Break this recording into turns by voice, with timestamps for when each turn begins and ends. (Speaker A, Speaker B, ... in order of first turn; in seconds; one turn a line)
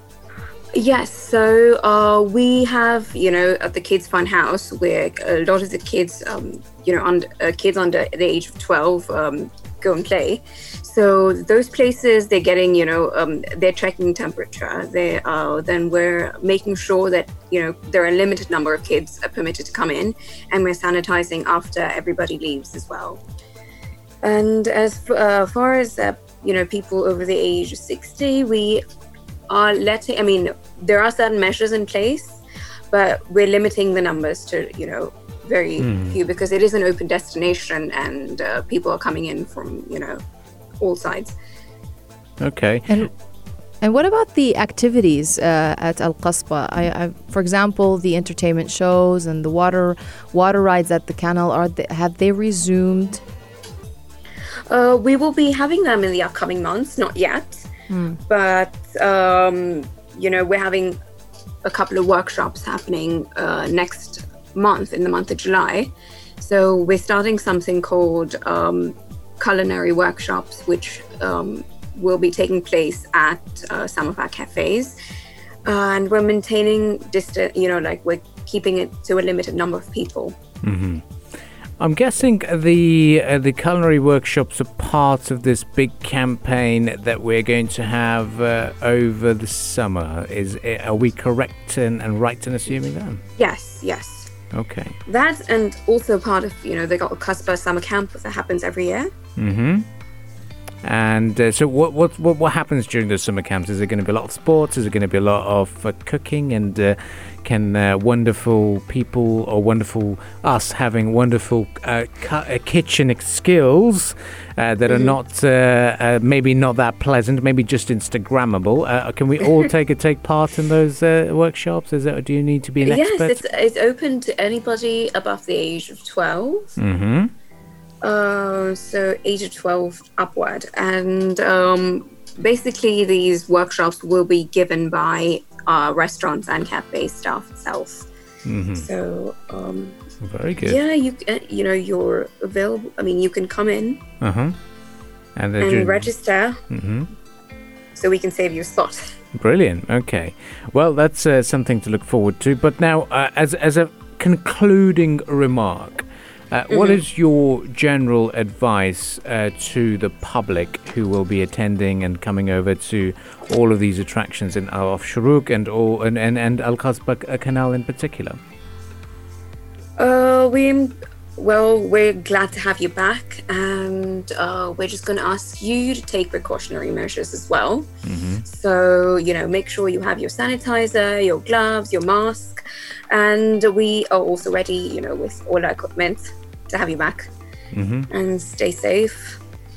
Speaker A: 0.7-23.2
Speaker A: 24.2-28.8
Speaker A: 29.5-40.2
Speaker B: 35.8-36.1
Speaker A: 40.8-41.4
Speaker B: 42.4-43.1
Speaker C: 43.8-53.2
Speaker A: 54.7-57.7
Speaker C: 57.9-58.2
Speaker A: 58.3-61.0
Speaker A: 61.6-75.0
Speaker A: 75.6-80.4
Speaker B: 80.6-81.0
Speaker B: 81.8-93.2
Speaker A: 93.4-94.3
Speaker B: 94.5-95.0
Speaker A: 95.0-99.1
Speaker B: 99.4-99.8
Speaker B: 100.8-123.4
Speaker A: 114.9-115.2
Speaker A: 122.8-126.7
Speaker B: 126.8-127.3
Speaker A: 128.0-138.1
Speaker B: 138.4-138.9
Speaker A: 138.8-140.0
Speaker B: 140.2-140.8
Speaker A: 140.6-144.0
Speaker B: 144.2-144.6
Speaker B: 145.3-146.1
Speaker A: 145.6-146.6
Speaker B: 146.7-147.1
Speaker A: 147.9-149.1
Speaker B: 149.3-168.4
Speaker A: 156.7-157.0
Speaker A: 170.0-177.9
Speaker B: 178.0-178.4
Speaker A: 178.4-182.6
Speaker A: 183.1-187.3
Speaker B: 187.7-188.1
Speaker A: 188.1-189.4